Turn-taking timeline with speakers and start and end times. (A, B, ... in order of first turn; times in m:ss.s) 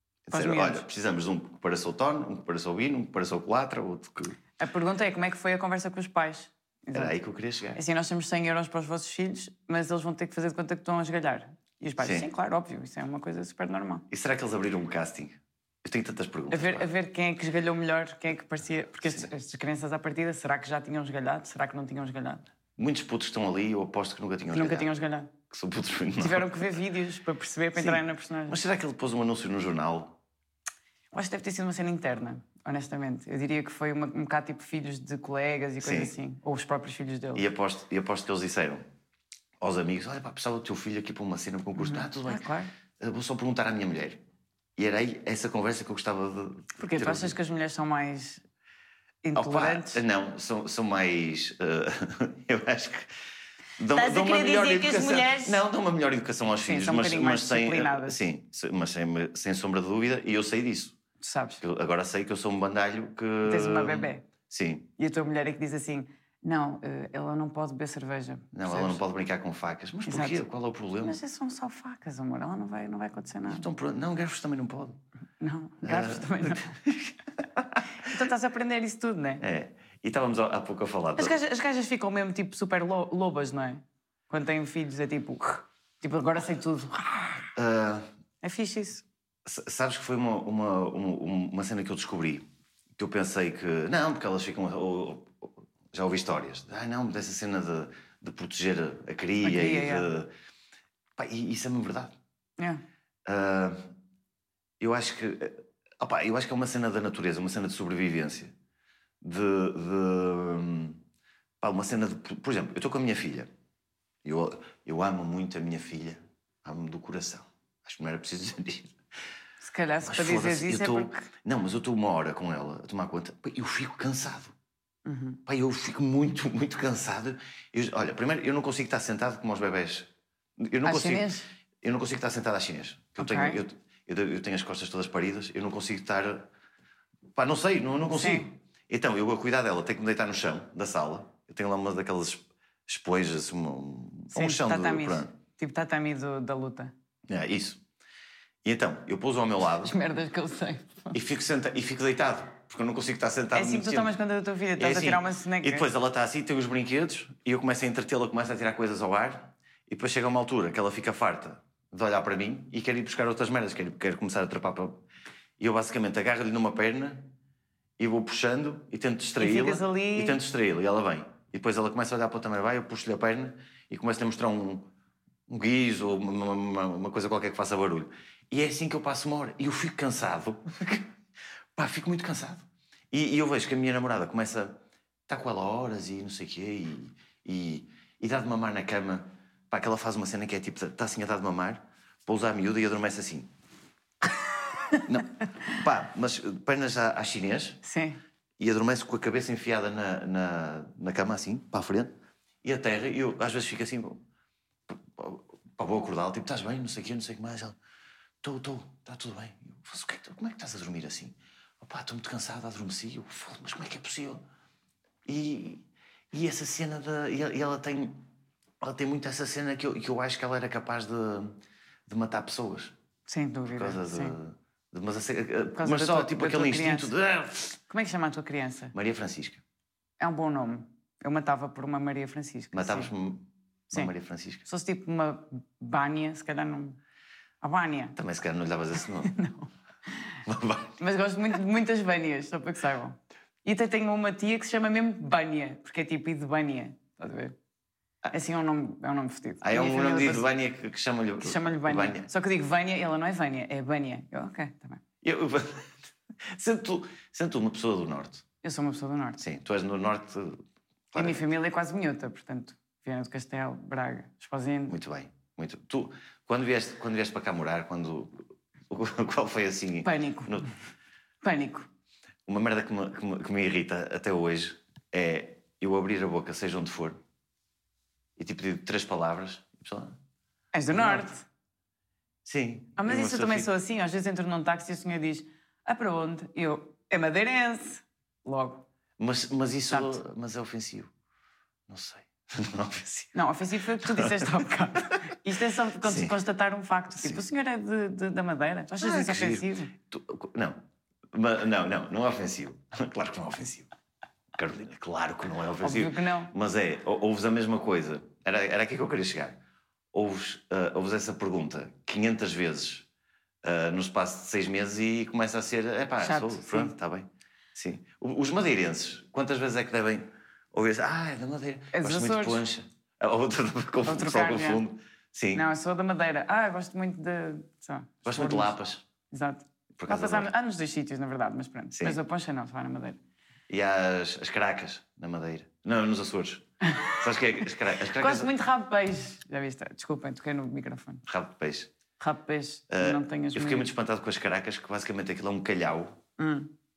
0:00.3-0:04.4 A
0:00.3-0:00.9 B
0:04.6-0:07.1 B
0:06.9-0:07.8 A
0:07.8-0:14.1 B
0:12.0-0:12.3 A
0:14.1-0:16.9 A
0:16.5-0:22.4 B
0:19.0-0:19.3 A
0:22.8-0:24.9 A
0:24.5-0:25.3 B
0:25.5-0:26.6 A
0:26.2-0:28.6 B
0:27.8-0:30.2 A
0:31.1-0:37.5 B
0:35.8-0:36.1 A
0:37.4-0:38.8 A
0:39.6-0:44.2 A
0:41.8-0:42.7 B
0:44.8-0:47.3 A
0:46.8-0:48.4 B
0:49.2-0:50.0 B
0:49.4-0:53.1 A
0:53.8-1:01.0 A
0:53.9-0:55.6 B
0:56.6-0:58.2 B
1:01.2-1:01.6 B
1:01.6-1:04.9 A
1:03.4-1:04.2 B
1:05.0-1:09.0 B
1:08.5-1:11.2 A
1:10.1-1:10.4 B
1:11.0-1:13.6 B
1:13.4-1:15.0 A
1:15.4-1:16.8 B
1:15.8-1:17.8 A
1:18.0-1:19.4 B
1:19.4-1:21.3 A
1:21.2-1:27.4 B
1:27.6-1:28.0 A
1:28.4-1:29.0 B
1:29.4-1:32.4 A
1:33.0-1:40.3 A
1:39.4-1:40.1 B
1:41.2-1:42.1 A
1:43.3-1:43.9 A
1:44.8-1:48.5 A
1:49.2-1:51.0 A
1:51.6-1:53.5 A
1:54.2-1:59.0 A
1:59.6-2:01.3 B
2:00.0-2:04.5 A
2:05.1-2:05.4 B
2:05.5-2:11.3 A
2:10.8-2:11.5 B
2:11.8-2:16.5 A
2:13.2-2:13.6 B
2:17.4-2:25.3 A
2:18.1-2:18.5 B
2:24.3-2:26.9 B
2:27.3-2:27.8 A
2:28.6-2:29.9 A
2:29.8-2:31.2 B
2:31.1-2:34.1 A
2:33.5-2:35.9 B
2:34.8-2:45.0 A
2:45.6-2:47.3 A
2:48.0-2:54.9 A
2:49.4-2:50.4 B
2:55.5-3:01.1 A
3:01.8-3:13.5 A
3:15.0-3:17.8 A
3:17.8-3:18.2 B
3:18.6-3:24.2 A
3:24.9-3:27.8 A
3:28.4-3:34.4 A
3:35.2-3:38.2 A
3:38.8-3:41.6 A
3:42.1-3:42.9 A
3:43.3-3:44.4 B
3:43.7-3:47.8 A
3:45.8-3:47.1 B
3:47.9-3:48.9 B
3:48.9-3:49.6 A
3:50.2-3:53.1 B
3:52.7-3:54.6 A
3:54.6-3:57.0 B
3:57.6-3:58.2 B
3:58.2-3:59.3 A
3:59.2-4:00.4 B
4:00.5-4:01.0 A
4:01.0-4:07.6 B
4:08.3-4:10.5 B
4:09.6-4:12.3 A
4:11.4-4:15.0 B
4:15.2-4:18.4 A
4:18.6-4:19.4 B
4:19.4-4:21.4 A
4:21.2-4:25.0 B
4:24.9-4:30.7 A
4:30.0-4:30.7 B
4:31.4-4:31.9 B
4:32.5-4:37.2 A
4:38.4-4:40.2 A
4:40.7-4:41.4 B
4:40.9-4:41.3 A
4:42.4-4:43.7 A
4:43.0-4:48.9 B
4:49.2-4:51.1 A
4:49.9-4:50.2 B
4:51.9-4:53.4 A
4:53.3-4:59.9 B
4:54.0-4:54.7 A
4:56.0-4:56.3 A
4:59.0-5:00.8 A
5:01.3-5:03.9 A
5:04.6-5:09.6 A
5:05.8-5:06.5 B
5:10.1-5:13.1 A
5:13.6-5:25.7 A
5:16.2-5:17.0 B
5:21.9-5:22.6 B
5:24.1-5:24.8 B
5:25.5-5:28.8 B
5:28.2-5:29.0 A
5:29.3-5:33.2 B
5:30.0-5:30.5 A
5:31.9-5:32.2 A
5:33.7-5:38.5 A
5:36.8-5:41.2 B
5:41.2-5:41.9 A
5:42.2-5:43.9 B
5:42.9-5:46.2 A
5:46.4-5:46.7 B